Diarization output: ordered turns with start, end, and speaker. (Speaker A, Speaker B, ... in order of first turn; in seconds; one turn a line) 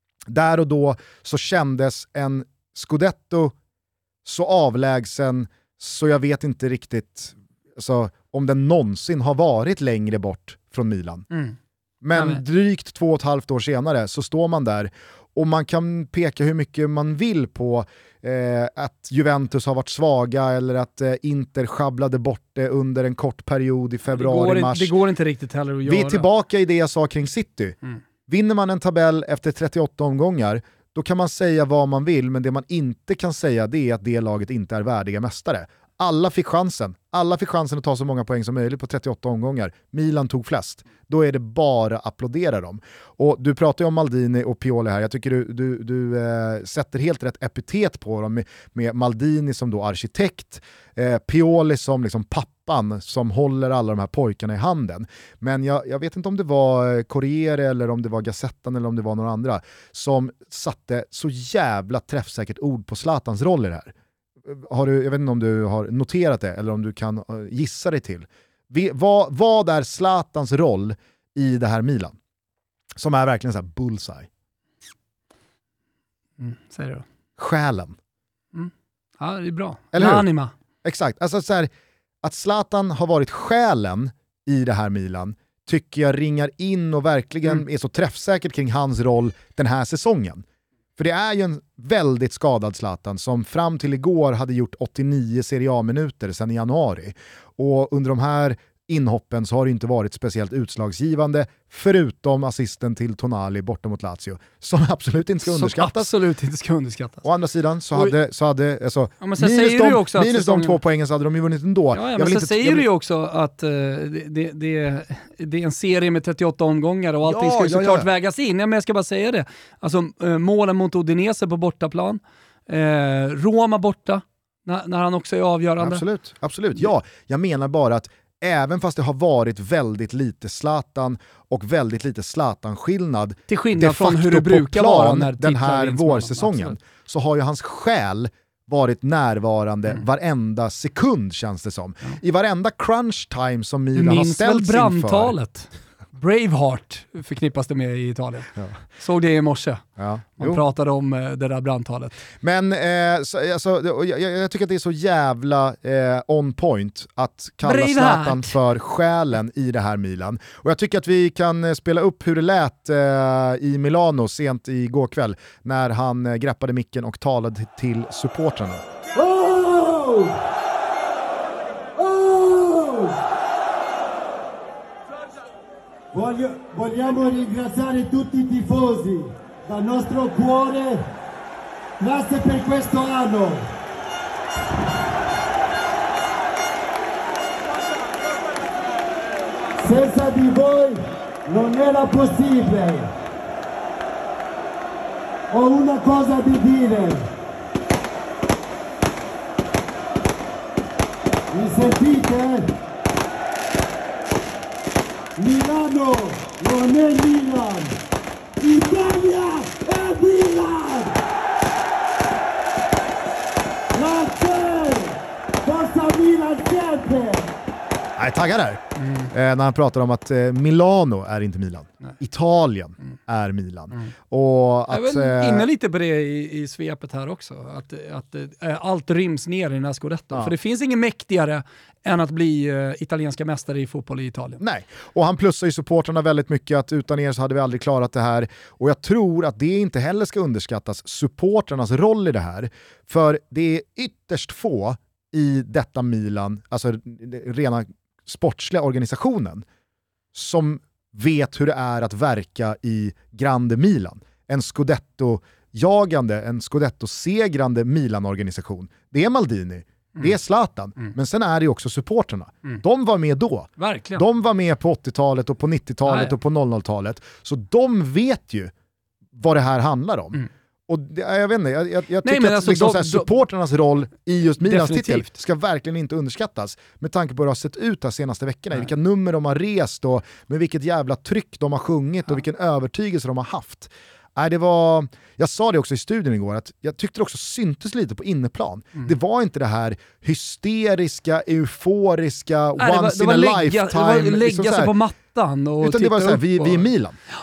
Speaker A: 0.3-3.5
Speaker A: 4.2-11.2
Speaker B: 11.3-11.6
Speaker A: 12.0-24.9
Speaker B: 12.1-12.4
Speaker B: 24.1-26.2
Speaker A: 25.9-27.8
Speaker A: 28.3-63.9
Speaker A: 64.4-72.2
Speaker A: 73.0-74.3
Speaker B: 76.4-77.0
Speaker A: 77.4-78.0
Speaker B: 78.5-80.5
Speaker A: 79.9-80.3
Speaker A: 80.8-81.7
Speaker A: 82.2-90.4
Speaker A: 91.0-106.1
Speaker B: 105.5-107.2
Speaker A: 107.2-112.8
Speaker B: 109.2-110.8
Speaker B: 111.9-126.0
Speaker A: 117.2-118.1
Speaker A: 125.8-145.3
Speaker B: 133.5-136.8
Speaker B: 143.9-149.9
Speaker A: 150.0-150.6
Speaker B: 150.4-152.2
Speaker A: 152.4-168.8
Speaker B: 157.6-158.6
Speaker C: 169.1-170.4
Speaker C: 172.0-173.2
Speaker C: 176.1-181.1
Speaker C: 182.0-183.7
Speaker C: 189.8-193.1
Speaker C: 195.5-197.3
Speaker C: 201.5-202.7
Speaker C: 205.4-208.0
Speaker C: 208.6-211.2
Speaker C: 213.9-217.5
Speaker A: 218.2-225.7
Speaker B: 219.0-219.3
Speaker B: 224.9-234.6
Speaker A: 234.6-249.6
Speaker A: 250.3-268.7
Speaker B: 263.8-264.2
Speaker B: 266.1-266.3
Speaker A: 269.3-294.9
Speaker B: 272.2-273.3
Speaker B: 274.6-275.3
Speaker B: 292.8-296.9
Speaker A: 295.8-297.2